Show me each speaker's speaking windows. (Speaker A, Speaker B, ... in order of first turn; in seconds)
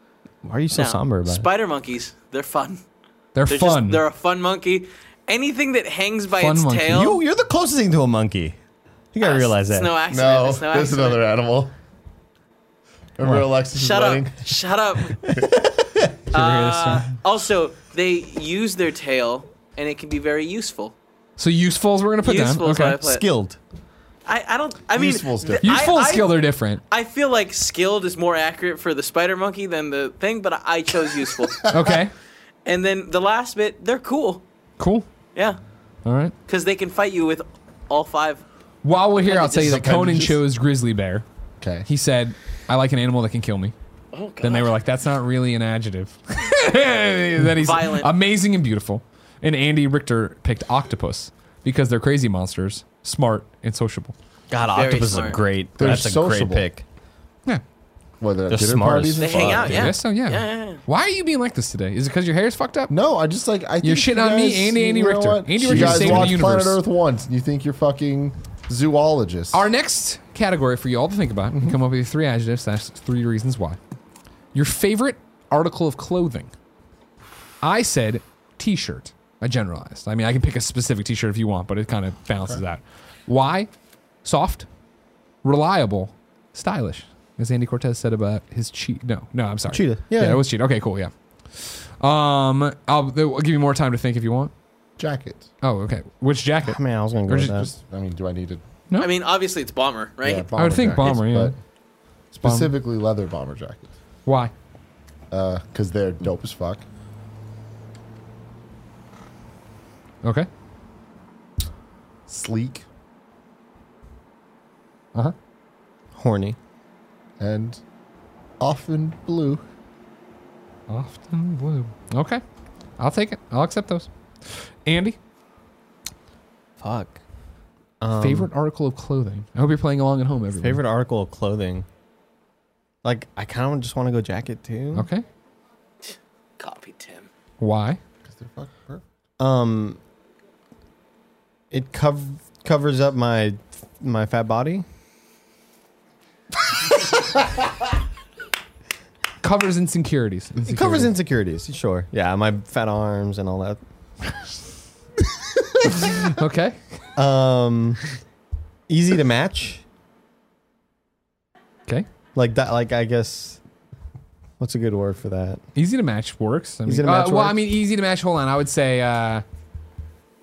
Speaker A: 0.4-1.4, 6.9-8.6, 9.1-9.9, 15.4-16.1, 23.0-23.6, 54.5-56.8, 58.5-60.0, 65.6-66.3, 89.7-90.4, 96.6-97.7, 116.2-116.6, 126.8-127.2, 128.0-128.5, 130.6-131.8, 133.0-135.1, 139.4-140.0, 141.7-144.8, 150.6-153.8, 157.2-158.1, 158.9-159.8, 162.3-163.6, 164.6-165.6, 166.8-167.6
Speaker B: 0.7-2.8, 3.5-7.2, 9.2-11.2, 13.7-15.4, 16.3-20.9, 22.2-23.2, 24.2-31.7, 32.6-34.4, 35.3-35.6, 36.5-38.4, 39.2-39.8, 44.1-44.7, 47.6-48.1, 54.7-55.5, 59.2-60.8, 99.0-100.5, 136.0-137.3
Speaker C: 3.3-4.0, 6.3-7.1, 16.3-17.1, 21.4-23.0, 25.6-26.8, 31.7-32.1, 34.8-35.1, 36.0-36.3, 38.8-41.2, 41.8-43.7, 44.4-54.1, 59.7-62.9, 63.8-66.8, 69.5-73.8, 74.5-76.5, 77.6-83.7, 84.2-84.7, 85.4-94.5, 95.6-97.7, 100.5-101.5, 102.4-102.7, 104.2-104.5, 110.2-110.5, 120.9-122.4, 123.0-124.1, 124.8-125.2, 128.2-130.8, 134.9-135.2, 137.6-138.0, 149.4-151.1, 155.9-156.8, 165.8-169.4
Speaker D: 10.1-11.7, 13.2-14.5, 24.9-25.9, 31.4-31.9, 39.5-40.4, 41.6-41.9, 55.8-56.7, 58.2-59.8, 62.9-69.6, 95.0-95.5, 97.5-98.6, 100.2-101.6, 102.3-103.9, 105.3-106.8, 112.3-112.8, 117.4-117.8, 118.6-119.6, 138.2-139.0